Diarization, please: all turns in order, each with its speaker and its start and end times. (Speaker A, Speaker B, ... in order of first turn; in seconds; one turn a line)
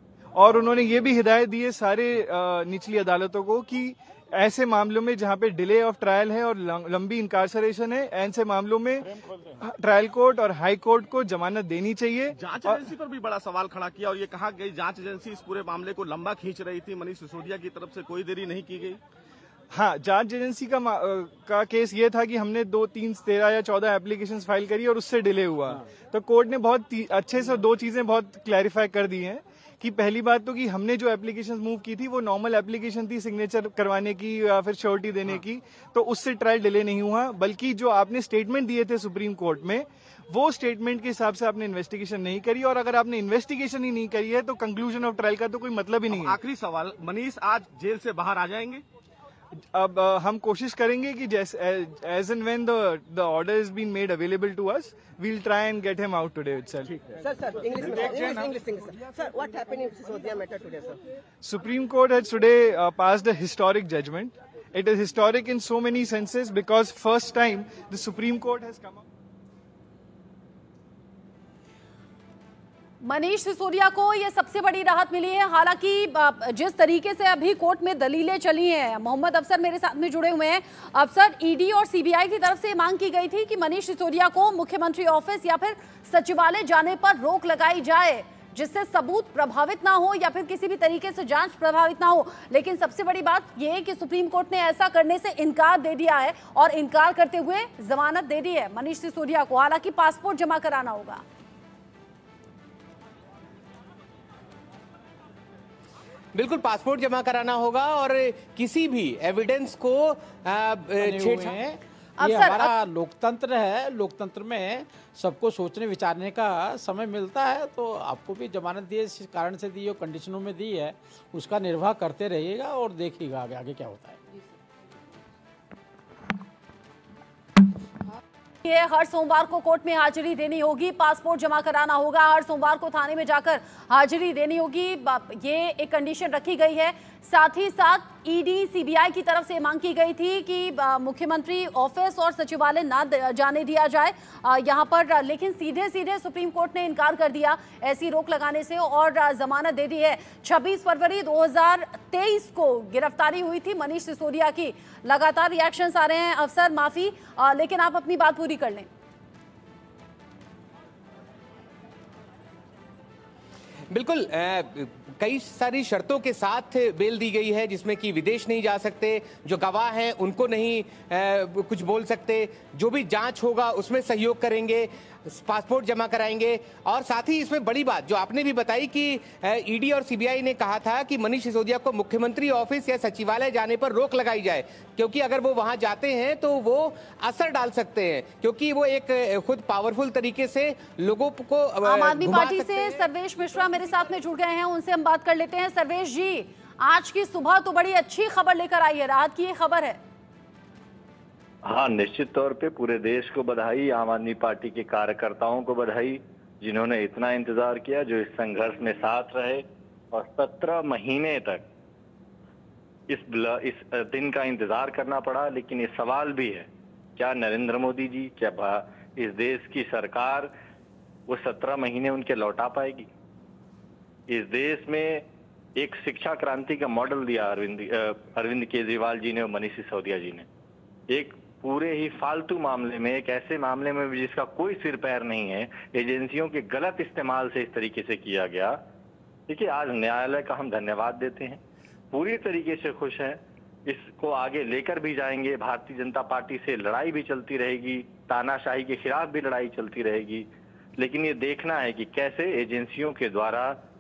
Speaker A: 0.4-12.9
Speaker B: 12.3-19.0
Speaker A: 19.7-46.4
Speaker B: 46.1-48.8
Speaker A: 49.7-56.9
Speaker C: 57.2-61.0
Speaker A: 57.8-58.5
Speaker A: 61.4-69.0
Speaker D: 73.0-101.2
Speaker E: 106.3-111.8
Speaker F: 111.0-124.2
Speaker D: 112.2-112.7
Speaker D: 128.6-158.9
Speaker E: 163.9-193.1
Speaker D: 191.8-200.0
Speaker G: 201.7-211.6
Speaker G: 213.1-220.5
Speaker G: 221.3-223.1
Speaker G: 224.3-225.2
Speaker G: 225.8-230.5
Speaker G: 231.1-238.8
Speaker G: 239.5-241.6
Speaker G: 242.1-250.5
Speaker G: 251.0-253.8